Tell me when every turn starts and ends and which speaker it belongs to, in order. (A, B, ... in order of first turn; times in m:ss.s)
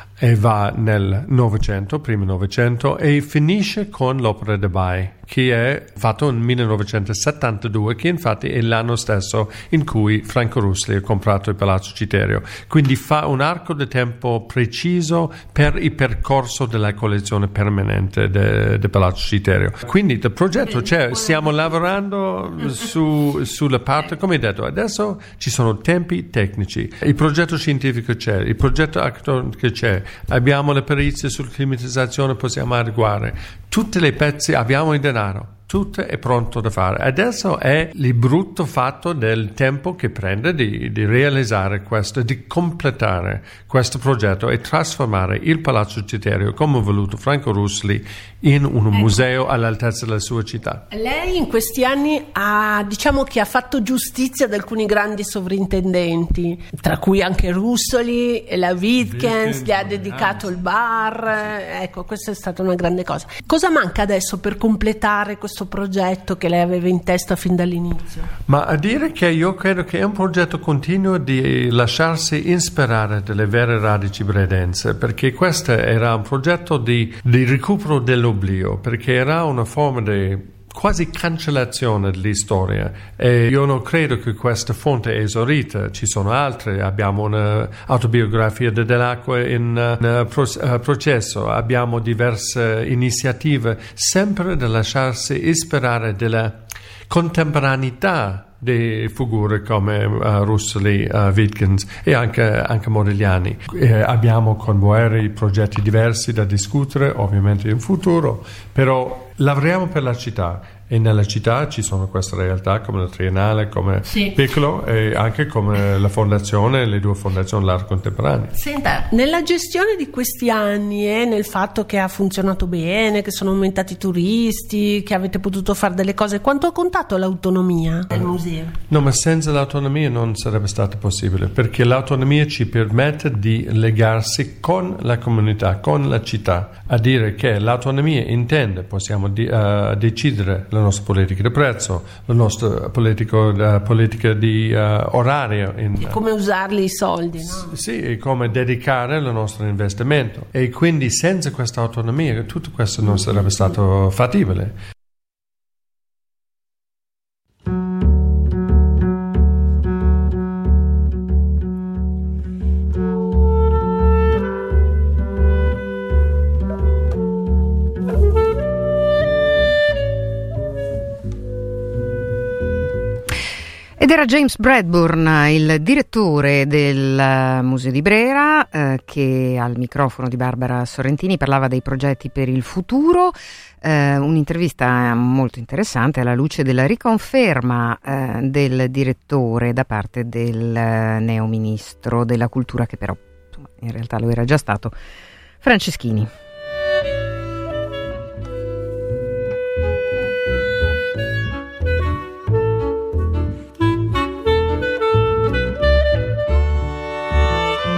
0:00.2-0:50.8 A
0:20.6-0:21.6 B
0:50.9-1:08.3 B
0:59.0-1:00.6 A
1:08.5-1:58.5 A
1:58.6-2:08.7 B
2:08.9-2:26.2 A
2:26.0-2:27.7 B
2:27.7-2:34.7 A
2:54.0-3:15.0 C
3:15.6-3:16.3 C